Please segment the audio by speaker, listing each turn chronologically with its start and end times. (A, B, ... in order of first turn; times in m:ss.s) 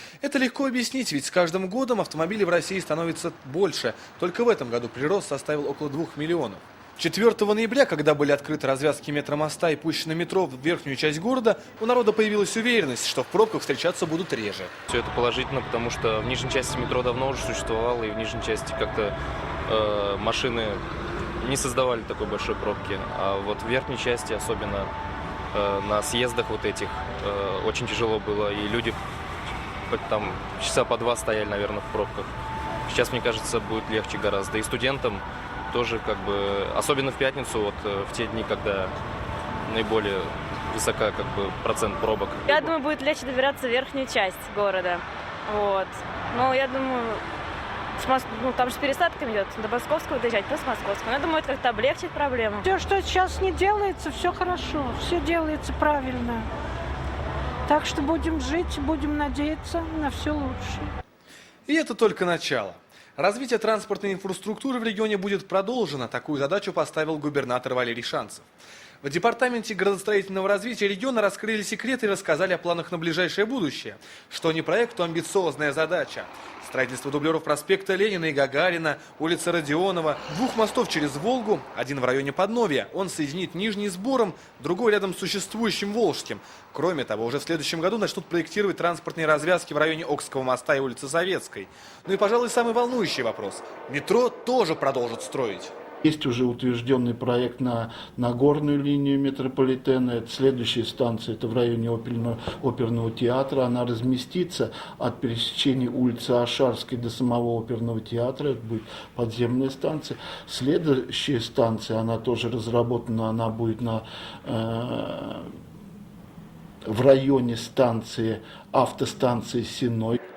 0:00.2-0:14.7 A
0:14.9-0:19.2 B
0:19.7-0:20.8 B
0:21.4-0:24.9 B
0:25.5-0:29.0 B
0:29.9-0:32.3 B
0:32.9-0:38.9 B
0:39.6-0:42.7 B
0:42.5-0:47.2 C
0:48.0-0:52.7 C
0:52.6-0:56.5 D
0:57.7-1:00.9 D
1:01.7-1:08.5 A
1:09.0-1:35.7 A
1:36.0-1:55.5 E
1:56.9-2:00.2 E